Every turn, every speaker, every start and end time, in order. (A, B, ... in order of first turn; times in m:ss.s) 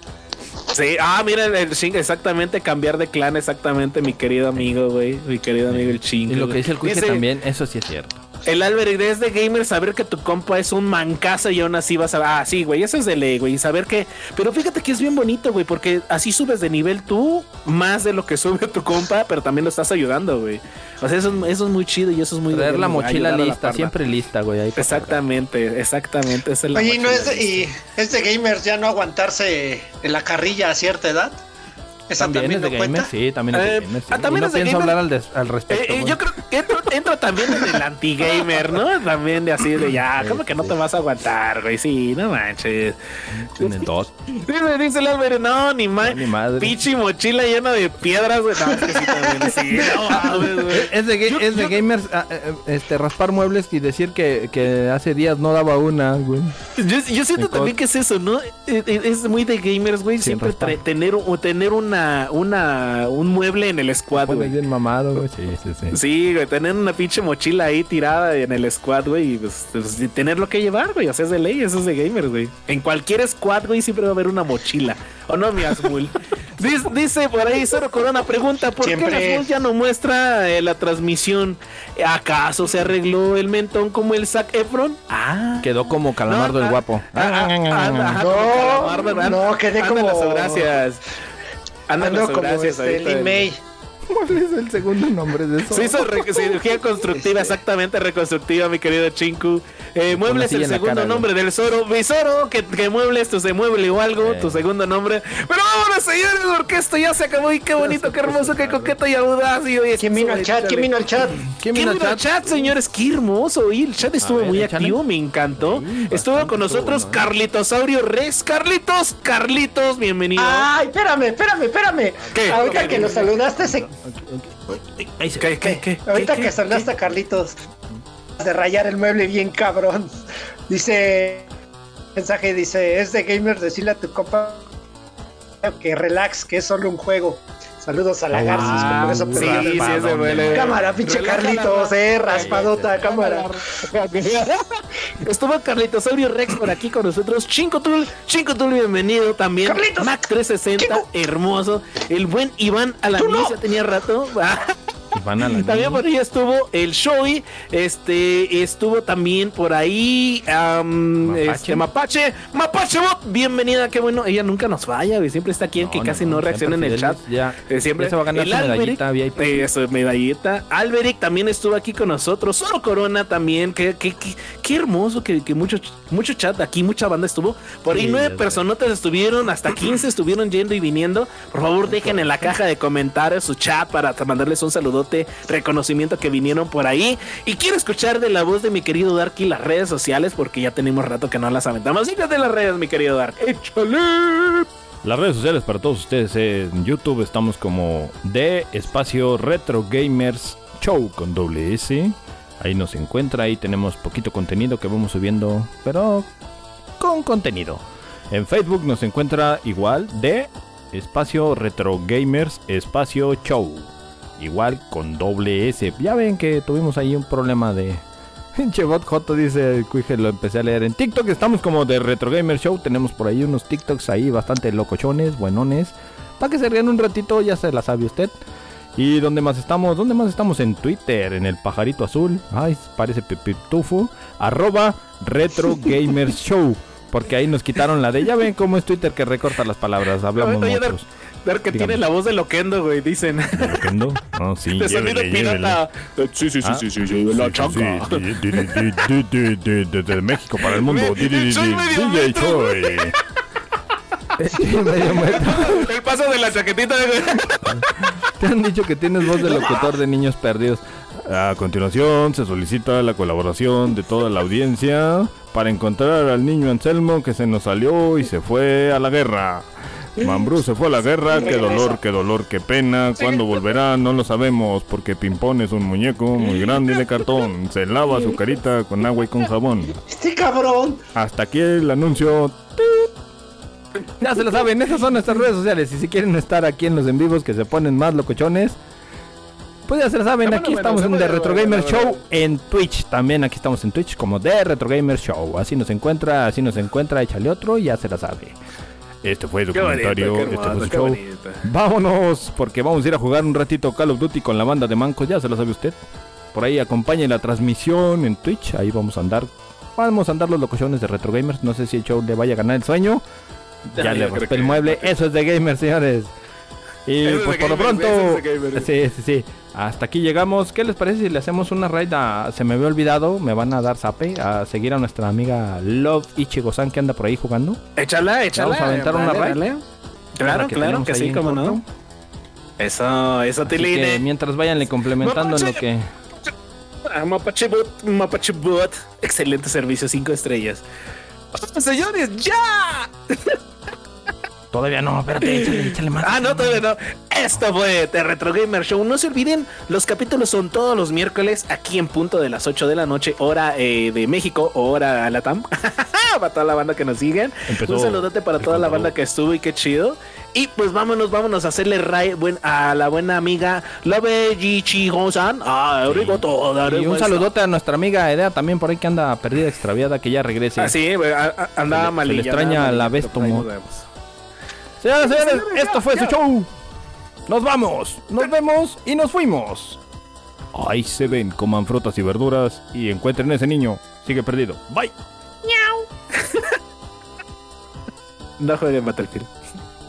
0:00.7-0:07.2 A
0:05.7-0:08.2 B
0:08.4-0:23.9 A
0:22.5-0:25.2 B
0:24.8-0:27.7 A
0:26.7-0:31.4 C
0:32.1-0:33.1 C
0:32.2-0:36.2 B
0:33.5-0:35.0 A
0:35.7-0:43.0 A
0:40.2-0:40.8 B
0:43.3-0:44.1 B
0:43.6-0:51.8 A
0:46.0-0:46.8 B
0:48.8-0:49.4 C
0:50.0-0:56.6 B
0:56.8-1:04.6 A
0:57.4-0:57.8 B
1:00.2-1:00.8 B
1:04.2-1:06.0 B
1:05.9-1:31.0 A
1:18.8-1:19.5 C
1:25.6-1:28.2 B
1:28.1-1:30.8 C
1:31.9-1:33.5 A
1:32.0-1:33.6 C
1:34.1-1:36.6 B
1:35.7-1:50.9 A
1:40.1-1:41.3 B
1:44.2-1:44.6 B
1:47.8-1:49.0 B
1:50.0-1:51.4 C
1:51.5-2:00.7 A
1:51.6-1:52.7 B
1:54.2-1:55.0 B
1:55.6-1:57.2 B
2:00.4-2:03.9 C
2:02.2-2:05.6 B
2:02.4-2:03.1 A
2:05.4-2:06.9 A
2:05.6-2:07.6 C
2:08.4-2:10.1 C
2:10.7-2:11.5 C
2:12.2-2:14.6 C
2:15.6-2:23.8 C
2:18.3-2:21.0 B
2:18.5-2:34.8 A
2:22.3-2:23.0 B
2:29.6-2:31.1 C
2:33.2-2:33.6 C
2:35.1-2:36.0 B
2:35.4-3:14.6 A
2:41.2-2:41.9 B
2:45.8-2:49.7 B
2:57.9-2:58.6 B
3:01.9-3:02.5 B
3:15.0-3:26.3 B
3:27.0-3:38.0 B
3:38.6-3:48.4 B
3:49.0-4:01.1 B
4:00.4-4:03.9 A
4:01.7-4:02.0 B
4:03.6-4:05.8 B
4:04.7-4:09.1 A
4:06.6-4:13.2 B
4:10.6-4:13.2 A
4:14.4-4:15.9 B
4:15.0-4:18.1 A
4:17.6-4:40.0 B
4:19.3-4:19.9 A
4:31.3-4:32.0 C
4:40.1-4:41.0 C
4:41.2-4:43.1 B
4:44.2-4:48.8 B
4:49.9-4:58.6 B
4:50.4-4:52.2 A
4:59.2-5:06.0 B
4:59.7-5:01.7 A
5:06.5-5:13.2 B
5:13.9-5:15.1 A
5:14.0-5:16.3 B
5:17.1-5:27.8 B
5:17.2-5:18.9 A
5:28.0-5:29.8 A
5:28.5-5:29.6 B
5:30.4-5:31.8 A
5:30.4-5:31.8 B
5:32.8-5:34.2 A
5:33.7-5:36.1 B
5:35.2-5:35.8 A
5:36.4-5:40.8 A
5:41.5-5:43.6 A
5:44.7-5:46.8 B
5:45.4-6:07.5 A
5:57.7-5:59.1 B
6:06.1-6:11.0 B
6:10.8-6:14.0 A
6:11.9-6:13.7 B
6:15.0-6:16.7 B
6:15.2-6:16.4 A
6:17.5-6:20.0 B
6:20.7-6:25.1 B
6:25.6-6:26.8 A
6:28.6-6:29.5 A